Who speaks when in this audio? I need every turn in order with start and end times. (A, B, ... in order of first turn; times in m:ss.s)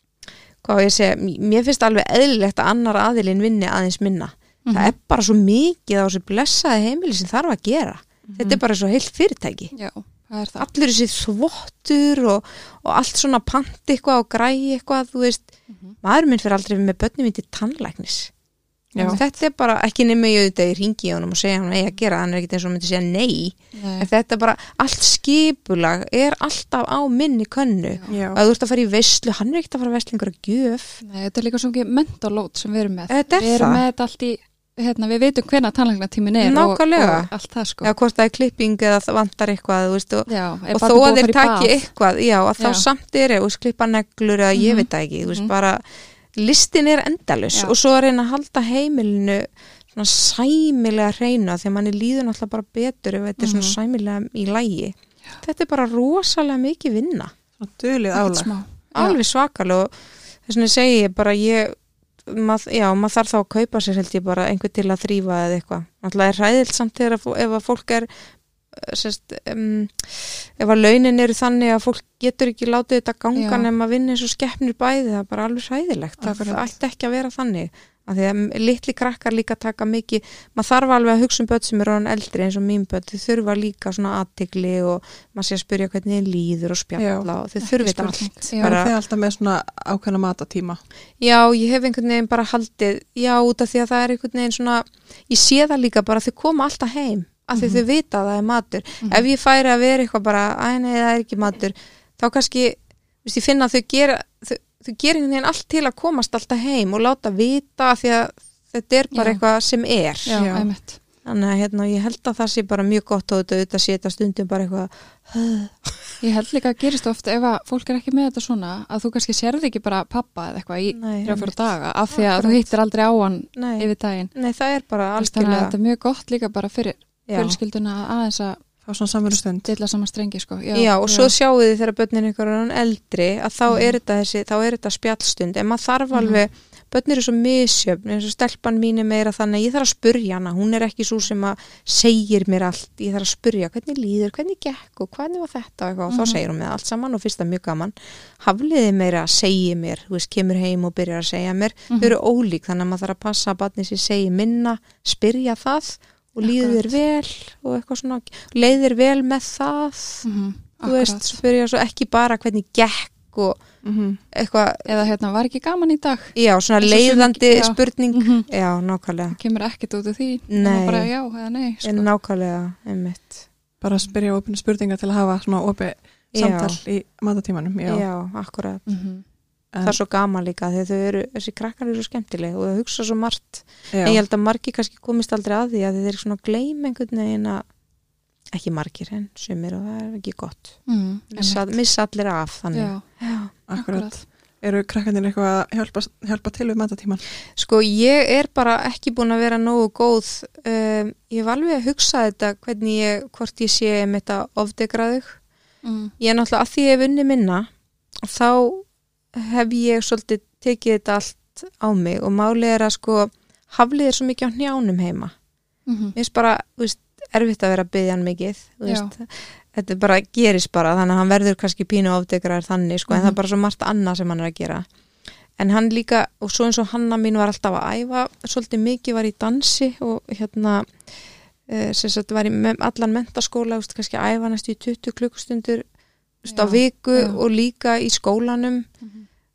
0:00.6-0:09.7 A
0:04.6-0:04.9 B
0:08.3-0:08.5 C
0:09.7-0:10.7 B
0:10.6-0:18.3 A
0:15.7-0:16.0 B
0:18.9-0:19.2 C
0:19.0-0:19.3 B
0:19.0-0:31.0 A
0:23.7-0:24.1 B
0:28.1-0:28.4 C
0:31.0-0:37.9 B
0:33.1-0:33.8 A
0:36.4-0:37.3 A
0:37.8-0:45.8 A
0:40.3-0:41.9 B
0:42.6-0:42.8 B
0:44.5-0:45.5 B
0:46.4-0:57.3 A
0:53.4-0:53.8 B
0:57.6-0:58.5 C
0:58.1-0:59.2 B
0:58.9-0:59.9 A
1:00.4-1:08.1 A
1:08.7-1:28.9 A
1:13.3-1:13.7 B
1:16.2-1:16.6 C
1:27.0-1:27.3 C
1:27.6-1:28.7 B
1:28.6-1:30.8 C
1:31.2-1:50.4 A
1:37.5-1:37.8 B
1:49.1-1:49.4 B
1:50.2-1:51.0 B
1:50.3-1:50.7 C
1:51.2-1:56.1 A
1:56.2-2:04.3 B
2:00.9-2:01.6 A
2:02.1-2:02.7 A
2:03.6-2:05.7 A
2:05.2-2:08.6 B
2:07.3-2:07.6 A
2:08.8-2:09.7 C
2:09.6-2:11.3 B
2:10.7-2:40.2 A
2:13.7-2:14.0 B
2:16.1-2:16.4 B
2:26.1-2:26.4 B
2:36.4-2:36.9 B
2:40.2-2:41.4 B
2:40.8-2:43.6 A
2:43.8-2:44.2 C
2:44.3-2:44.9 A
2:44.8-2:48.5 B
2:46.4-2:49.4 A
2:49.3-2:52.1 B
2:50.5-2:51.1 A
2:51.8-2:53.4 A
2:53.8-2:58.0 C
2:56.3-2:56.8 A
2:57.9-2:58.8 A
2:58.9-2:59.2 B
2:59.7-3:00.0 C
2:59.8-3:07.6 A
3:03.9-3:04.2 C
3:08.5-3:10.8 A
3:10.9-3:11.7 B
3:11.3-3:13.5 A
3:12.7-3:13.0 B
3:13.7-3:17.2 C
3:13.7-3:14.1 B
3:17.6-3:25.4 A
3:25.8-3:26.1 B
3:26.2-3:27.7 A
3:28.2-3:35.3 A
3:35.9-3:36.1 B
3:36.1-3:44.8 A
3:38.8-3:39.1 B
3:43.1-3:43.4 B
3:45.6-3:50.9 A
3:51.7-3:55.8 A
3:56.4-3:58.9 A
3:56.5-3:57.4 B
3:59.0-3:59.3 B